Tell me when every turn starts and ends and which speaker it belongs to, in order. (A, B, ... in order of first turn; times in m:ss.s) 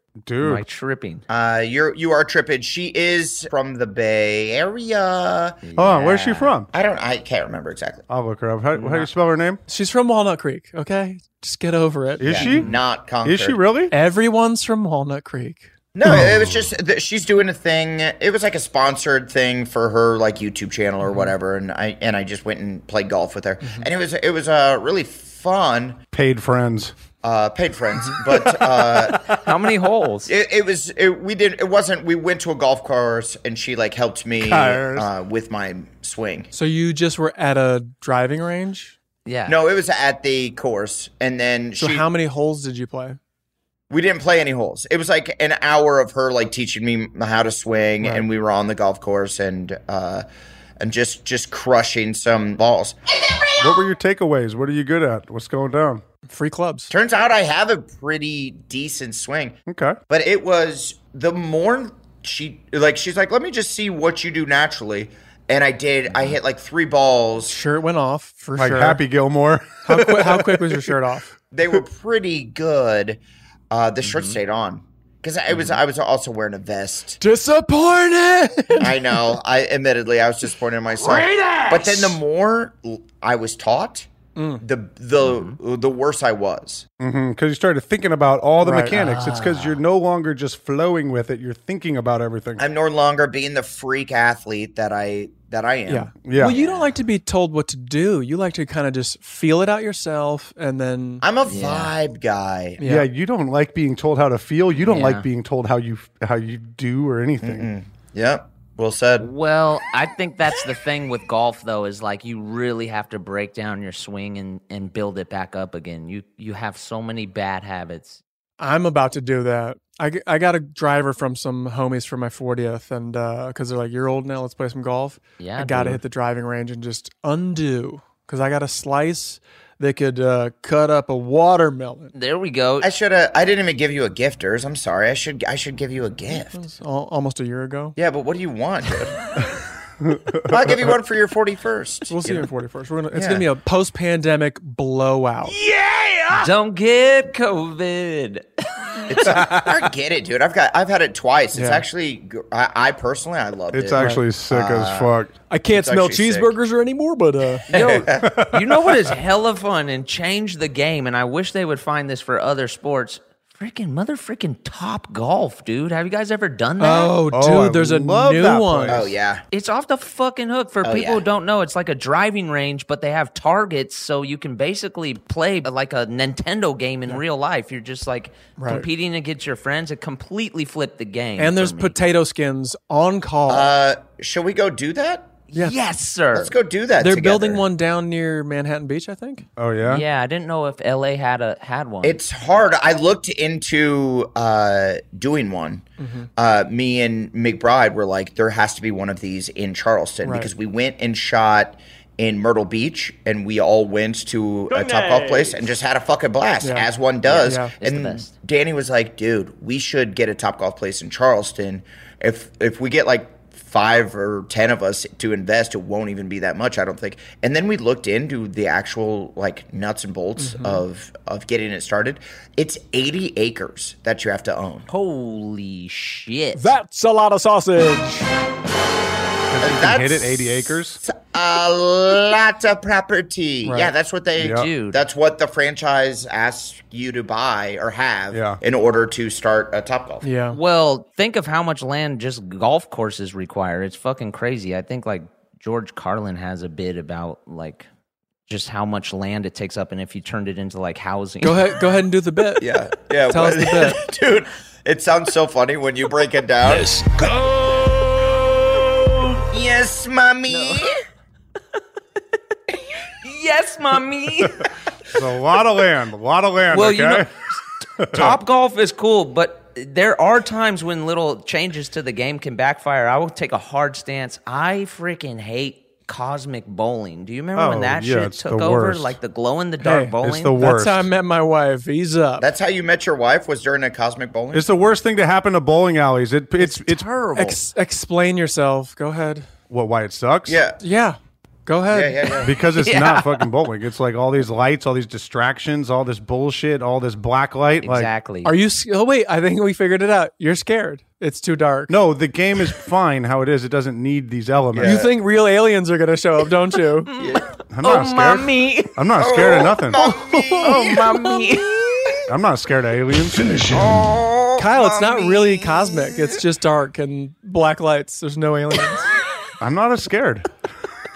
0:00.2-0:00.6 A
0:00.4-0:01.2 B
0:01.3-0:05.6 C
0:05.6-0:06.5 B
0:05.8-0:06.7 A
0:06.7-0:08.0 C
0:08.1-0:09.6 A
0:08.8-0:09.0 B
0:09.7-0:12.5 D
0:12.2-0:12.7 A
0:12.2-0:13.6 C
0:12.4-0:12.8 B
0:13.2-0:13.9 A
0:13.9-0:16.2 D
0:16.0-0:26.0 C
0:16.0-0:16.7 A
0:21.0-0:21.3 D
0:23.6-0:23.9 D
0:26.1-0:26.9 A
0:27.2-0:29.3 C
0:29.4-0:30.3 B
0:30.3-0:36.5 C
0:34.4-0:35.1 A
0:36.5-0:39.0 D
0:39.3-0:39.6 B
0:39.5-0:42.0 C
0:41.8-0:43.2 D
0:43.9-0:50.2 C
0:50.8-0:53.0 C
0:53.6-0:56.0 A
0:56.3-0:56.9 D
0:56.9-1:07.6 C
0:59.7-1:00.0 A
1:07.4-1:09.0 D
1:08.6-1:10.9 A
1:09.9-1:11.3 D
1:11.5-1:13.2 C
1:13.7-1:17.2 C
1:14.0-1:14.4 B
1:15.5-1:15.8 B
1:17.2-1:19.2 D
1:18.8-1:24.1 C
1:24.4-1:24.6 D
1:24.6-1:26.8 C
1:25.2-1:25.6 B
1:27.0-1:32.6 A
1:28.6-1:29.0 D
1:28.9-1:29.8 B
1:32.6-1:36.6 C
1:35.9-1:41.2 D
1:36.2-1:36.6 A
1:36.6-1:36.8 B
1:41.2-1:42.8 C
1:41.4-1:41.9 B
1:42.8-1:43.1 D
1:42.8-1:47.7 A
1:44.8-1:45.2 B
1:47.4-1:49.3 C
1:49.2-1:58.2 B
1:58.6-2:12.1 D
2:05.4-2:06.0 B
2:12.1-2:12.9 B
2:12.8-2:16.6 C
2:16.3-2:18.0 D
2:18.0-2:19.2 C
2:20.0-2:20.9 A
2:20.5-2:22.5 C
2:22.1-2:25.5 D
2:23.1-2:23.4 C
2:25.6-2:29.1 B
2:29.1-2:35.1 C
2:29.3-2:29.7 A
2:31.5-2:31.9 D
2:33.7-2:35.3 A
2:35.5-2:37.6 D
2:35.7-2:36.6 C
2:37.7-2:38.3 C
2:37.7-2:47.2 B
2:38.3-2:38.5 A
2:46.8-2:49.0 D
2:47.3-2:49.1 A
2:48.9-2:49.4 C
2:49.5-3:02.0 B
2:50.8-2:51.2 C
2:58.6-2:58.9 D
3:01.4-3:03.7 D
3:03.5-3:05.4 C
3:05.6-3:06.5 B
3:06.3-3:07.6 C
3:07.0-3:09.4 D
3:09.6-3:10.0 A
3:09.9-3:12.2 B
3:12.0-3:15.8 C
3:16.0-3:16.3 D
3:16.4-3:44.9 C
3:20.2-3:20.5 D
3:26.6-3:26.9 D
3:27.2-3:28.3 B
3:27.4-3:27.7 D
3:40.4-3:40.8 D
3:44.9-3:46.7 B
3:46.6-3:48.3 D
3:49.5-3:51.0 A
3:49.6-4:00.2 C
3:53.6-3:53.9 D
3:54.4-3:55.0 B
3:58.3-3:58.6 A
4:00.2-4:00.6 D
4:00.5-4:07.9 B
4:08.5-4:11.8 B
4:11.4-4:12.6 D
4:12.6-4:17.0 C
4:13.3-4:14.0 D
4:19.5-4:20.9 C
4:20.5-4:20.8 B
4:23.2-4:24.7 B
4:25.1-4:27.3 A
4:26.7-4:27.3 B
4:28.0-4:28.4 A
4:28.1-4:40.6 B
4:37.6-4:39.2 A
4:39.8-4:42.4 D
4:40.2-4:41.1 A
4:42.4-4:44.6 C
4:44.5-4:47.1 A
4:46.8-4:47.5 B
4:47.3-4:49.5 D
4:49.7-4:50.6 A
4:50.5-4:50.8 C
4:50.8-4:52.4 D
4:51.9-4:52.5 C
4:52.4-4:58.1 A
4:52.8-4:53.3 B
4:57.8-4:58.5 B
4:58.4-5:01.9 D
5:01.9-5:05.0 A
5:04.7-5:05.1 C
5:04.8-5:07.1 D
5:07.1-5:09.0 B
5:07.2-5:07.5 C
5:07.7-5:10.0 A
5:09.2-5:11.1 C
5:10.0-5:10.8 D
5:10.6-5:12.0 B
5:12.3-5:13.8 A
5:13.7-5:16.4 C
5:14.6-5:19.1 D
5:19.6-5:20.5 A